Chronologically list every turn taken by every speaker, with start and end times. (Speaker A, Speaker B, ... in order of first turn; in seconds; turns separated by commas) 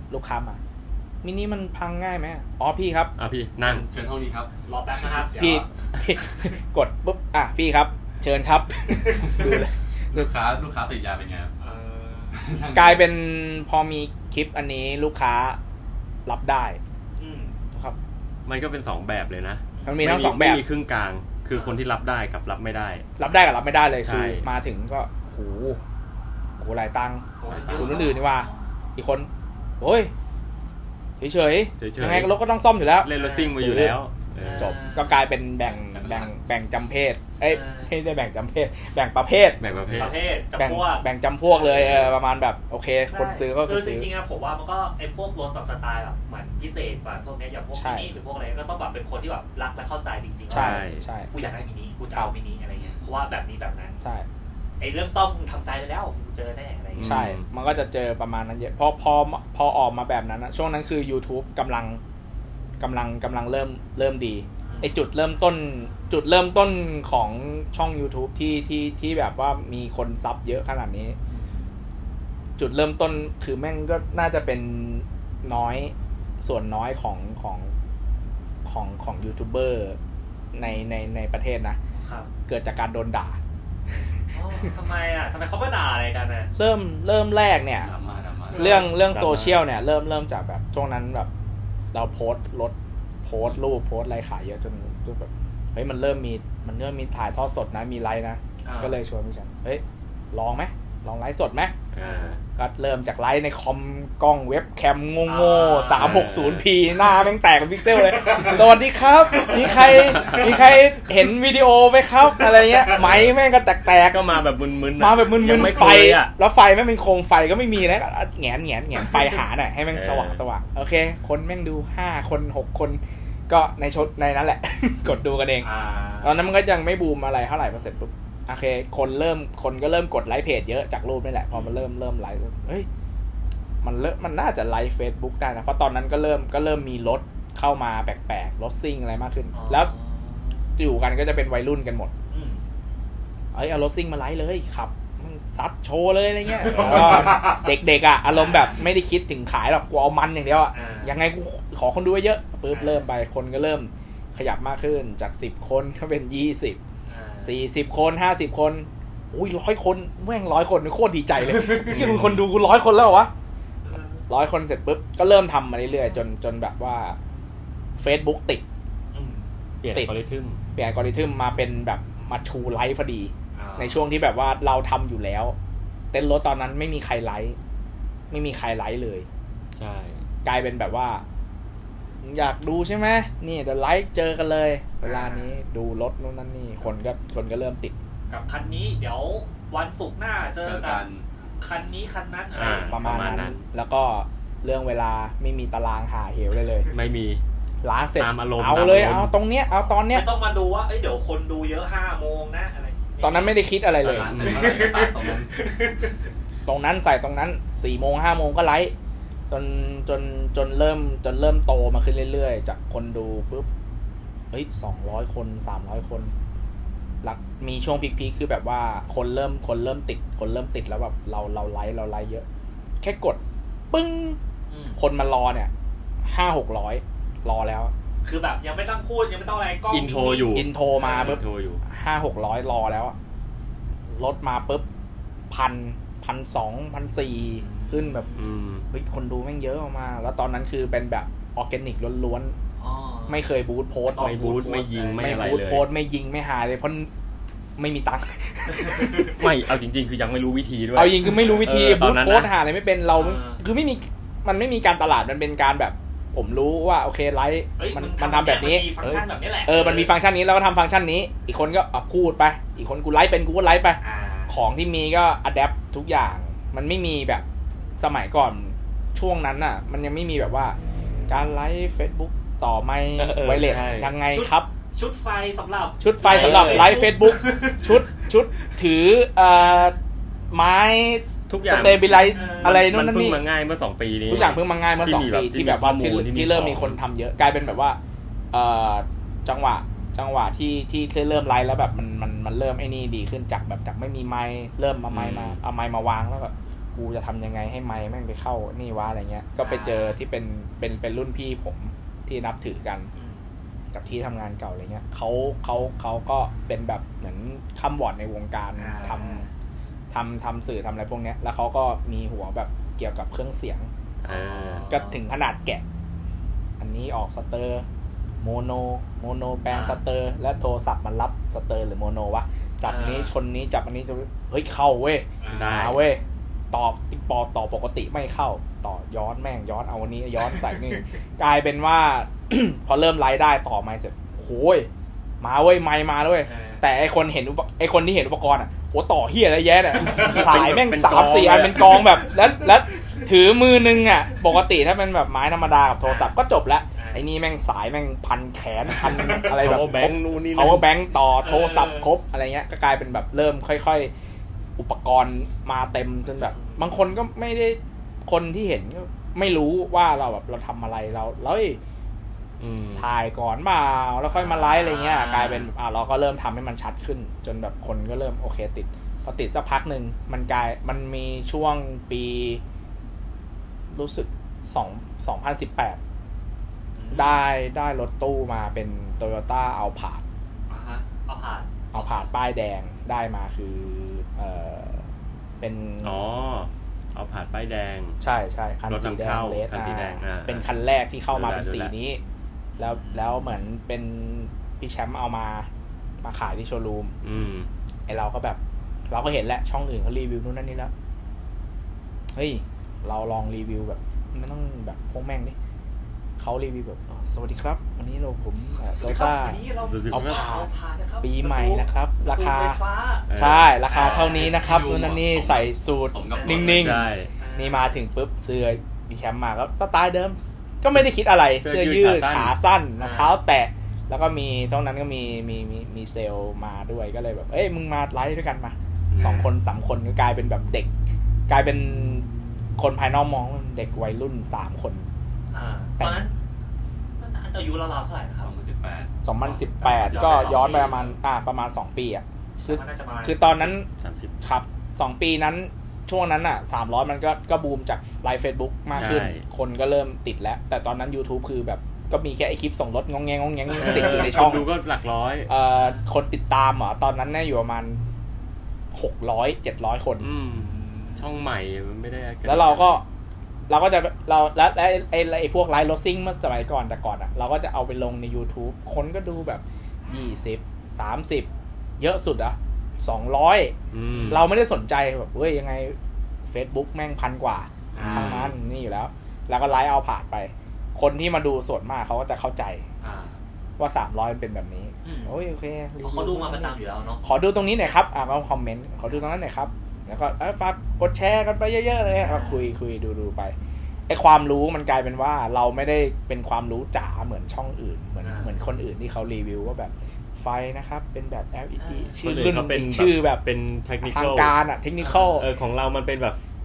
Speaker A: 0.1-0.6, Speaker A: 1.2-3.1, Speaker B: 3.2-3.9, Speaker C: 3.6-5.2, Speaker D: 4.6-5.7, Speaker A: 5.3-10.3, Speaker C: 9.2-9.6, Speaker C: 10.1-11.5, Speaker D: 11.6-12.4, Speaker C: 12.3-13.1, Speaker A: 12.7-15.6, Speaker A: 16.2-16.8, Speaker D: 17.2-17.6, Speaker A: 17.7-18.0, Speaker B: 18.4-23.1, Speaker D: 19.7-20.0, Speaker A: 19.9-20.6, Speaker D: 21.5-21.8, Speaker A: 23.2-25.8, Speaker B: 24.0-24.4, Speaker A: 26.6-29.3, Speaker D: 27.4-28.6, Speaker A: 29.8-30.1, Speaker A: 31.2-34.0, Speaker B: 31.8-32.3, Speaker B: 33.0-34.8, Speaker D: 33.1-33.5, Speaker D: 34.4-35.2, Speaker A: 34.6-39.6, Speaker C: 35.6-36.3, Speaker D: 37.4-37.9, Speaker B: 39.6-40.2, Speaker D: 39.9-42.0, Speaker A: 40.6-44.1, Speaker B: 41.7-42.1, Speaker D: 43.1-54.0, Speaker A: 47.7-48.1, Speaker B: 50.5-51.0, Speaker A: 50.5-51.3, Speaker C: 52.8-53.1, Speaker D: 54.8-57.3, Speaker B: 56.9-57.4, Speaker A: 57.0-62.0, Speaker A: 62.8-71.2, Speaker D: 64.7-65.0, Speaker D: 71.3-71.7, Speaker A: 72.6-77.7, Speaker A: 78.6-80.0, Speaker A: 80.5-81.8, Speaker D: 81.9-82.3, Speaker A: 82.5-83.4, Speaker D: 84.3-86.5, Speaker A: 86.5-87.9, Speaker C: 87.8-88.8, Speaker A: 88.5-91.3, Speaker D: 88.6-88.9, Speaker B: 88.8-89.6, Speaker A: 91.9-101.7, Speaker D: 98.6-99.0, Speaker B: 101.9-102.4, Speaker D: 102.0-102.4, Speaker A: 102.6-114.4, Speaker D: 105.2-106.2, Speaker B: 106.0-106.7, Speaker D: 108.1-108.7, Speaker D: 109.4-110.3, Speaker B: 109.8-110.8, Speaker B: 112.9-113.3, Speaker B: 114.0-116.3, Speaker A: 115.0-125.7, Speaker B: 119.9-120.4, Speaker D: 125.6-126.5, Speaker A: 126.2-132.9, Speaker D: 131.5-131.8, Speaker A: 133.8-139.9, Speaker D: 139.5-140.7, Speaker A: 140.8-142.1, Speaker D: 142.3-142.6, Speaker A: 143.5-156.8, Speaker D: 146.6-147.7, Speaker B: 146.6-147.4, Speaker D: 148.3-148.8, Speaker D: 150.7-151.2, Speaker D: 152.7-153.0, Speaker D: 157.1-157.6, Speaker A: 157.4-163.3, Speaker B: 161.6-162.4, Speaker D: 163.8-164.2, Speaker A: 164.3-167.2, Speaker A: 168.0-168.6, Speaker D: 169.1-169.5, Speaker B: 169.8-170.6, Speaker A: 170.7-175.6, Speaker D: 173.5-174.1, Speaker A: 176.1-177.6, Speaker A: 178.3-179.3, Speaker B: 179.7-180.2, Speaker A: 180.4-181.2, Speaker A: 182.2-187.9, Speaker D: 185.0-185.5, Speaker D: 188.3-191.0, Speaker C: 190.6-191.2, Speaker D: 191.6-193.0, Speaker B: 192.5-193.6, Speaker A: 192.9-196.9, Speaker B: 196.9-197.4, Speaker A: 197.8-200.3, Speaker B: 198.2-199.3, Speaker D: 200.0-203.6, Speaker A: 203.2-204.3, Speaker C: 204.0-205.5, Speaker B: 204.1-204.8, Speaker D: 204.4-206.2, Speaker A: 206.7-208.9, Speaker A: 209.5-213.7, Speaker A: 214.5-216.3, Speaker A: 217.2-222.4, Speaker A: 223.0-223.4, Speaker A: 223.9-224.4, Speaker D: 224.7-225.0, Speaker A: 225.0-225.7, Speaker A: 226.2-227.9, Speaker D: 228.2-231.4, Speaker B: 229.9-231.8, Speaker A: 230.5-233.2, Speaker A: 234.1-234.8, Speaker A: 235.5-238.3, Speaker D: 237.5-238.5, Speaker B: 238.3-238.8, Speaker A: 238.9-242.5, Speaker D: 242.8-243.4, Speaker A: 243.3-244.4, Speaker D: 244.0-245.3, Speaker B: 244.2-245.9, Speaker A: 245.2-247.1, Speaker A: 247.8-249.5, Speaker D: 248.7-249.3, Speaker B: 249.2-252.5, Speaker A: 250.9-259.0, Speaker D: 251.2-251.6, Speaker D: 253.2-253.6, Speaker D: 257.8-260.1, Speaker A: 259.6-267.4, Speaker D: 264.0-264.6, Speaker A: 268.0-270.8, Speaker A: 271.3-274.7, Speaker B: 273.2-274.1, Speaker D: 273.6-278.0, Speaker A: 276.0-279.9, Speaker B: 276.2-277.1, Speaker A: 280.5-283.4, Speaker B: 281.5-287.0, Speaker D: 282.2-282.8, Speaker A: 284.3-288.0, Speaker A: 288.5-303.1, Speaker B: 295.1-295.6, Speaker D: 299.6-300.2, Speaker D: 303.1-303.4, Speaker A: 303.9-309.4, Speaker D: 308.8-309.5, Speaker A: 310.1-313.9, Speaker B: 314.2-314.9, Speaker D: 314.2-315.2, Speaker A: 314.9-315.8, Speaker A: 316.8-317.9, Speaker A: 318.4-334.9, Speaker D: 319.7-320.0, Speaker D: 322.8-323.3, Speaker D: 325.4-325.9, Speaker B: 325.5-326.0, Speaker D: 330.4-331.0, Speaker A: 335.4-354.1, Speaker D: 336.4-336.9, Speaker D: 340.0-340.4, Speaker B: 340.1-342.2, Speaker D: 346.0-346.3, Speaker D: 346.9-347.2, Speaker D: 349.0-349.5, Speaker B: 349.2-350.9, Speaker D: 351.4-352.1, Speaker A: 354.8-361.8, Speaker D: 356.3-357.1, Speaker B: 362.6-363.1, Speaker A: 363.0-372.6, Speaker D: 364.3-365.7, Speaker A: 373.9-376.0, Speaker D: 377.0-377.4, Speaker A: 377.1-380.2, Speaker D: 380.7-382.3, Speaker A: 381.9-385.1, Speaker A: 385.6-386.2, Speaker B: 386.0-388.2, Speaker A: 388.2-392.2, Speaker B: 388.9-390.7, Speaker B: 391.3-391.9, Speaker D: 392.8-393.4, Speaker A: 392.8-395.7, Speaker A: 396.2-397.1, Speaker B: 397.2-397.7, Speaker A: 398.1-400.9, Speaker A: 402.3-405.5, Speaker A: 406.4-410.7, Speaker D: 408.9-414.6, Speaker B: 409.8-410.4, Speaker A: 411.2-412.8, Speaker B: 413.3-413.8, Speaker A: 413.3-430.9, Speaker C: 413.9-417.0, Speaker D: 416.3-416.8, Speaker B: 416.6-417.3, Speaker D: 417.4-418.0, Speaker B: 421.6-422.5, Speaker D: 423.0-423.4, Speaker B: 429.1-429.5, Speaker A: 431.5-435.1, Speaker D: 435.5-436.3, Speaker A: 436.0-436.2, Speaker D: 437.2-438.5, Speaker C: 438.4-439.1, Speaker A: 439.2-443.9, Speaker D: 439.4-441.1, Speaker D: 442.6-443.8, Speaker B: 444.0-444.4, Speaker A: 444.4-454.7, Speaker B: 448.9-449.4, Speaker B: 453.7-455.5, Speaker D: 453.8-454.3, Speaker A: 455.5-458.0, Speaker D: 455.7-456.0, Speaker A: 458.9-460.3, Speaker B: 460.2-463.0, Speaker D: 460.5-461.2, Speaker A: 462.4-463.0, Speaker A: 463.7-471.5, Speaker A: 472.0-473.7, Speaker B: 473.9-474.4, Speaker A: 474.3-476.0, Speaker A: 476.5-482.8, Speaker D: 477.9-478.5, Speaker B: 477.9-478.5, Speaker D: 483.0-483.4, Speaker A: 483.8-493.5, Speaker D: 485.0-485.4, Speaker D: 486.0-487.2, Speaker D: 492.2-492.6, Speaker A: 494.1-503.4, Speaker D: 498.2-498.6, Speaker D: 501.8-502.2, Speaker B: 502.2-504.5, Speaker A: 504.0-505.5, Speaker D: 505.0-505.4, Speaker B: 505.4-506.4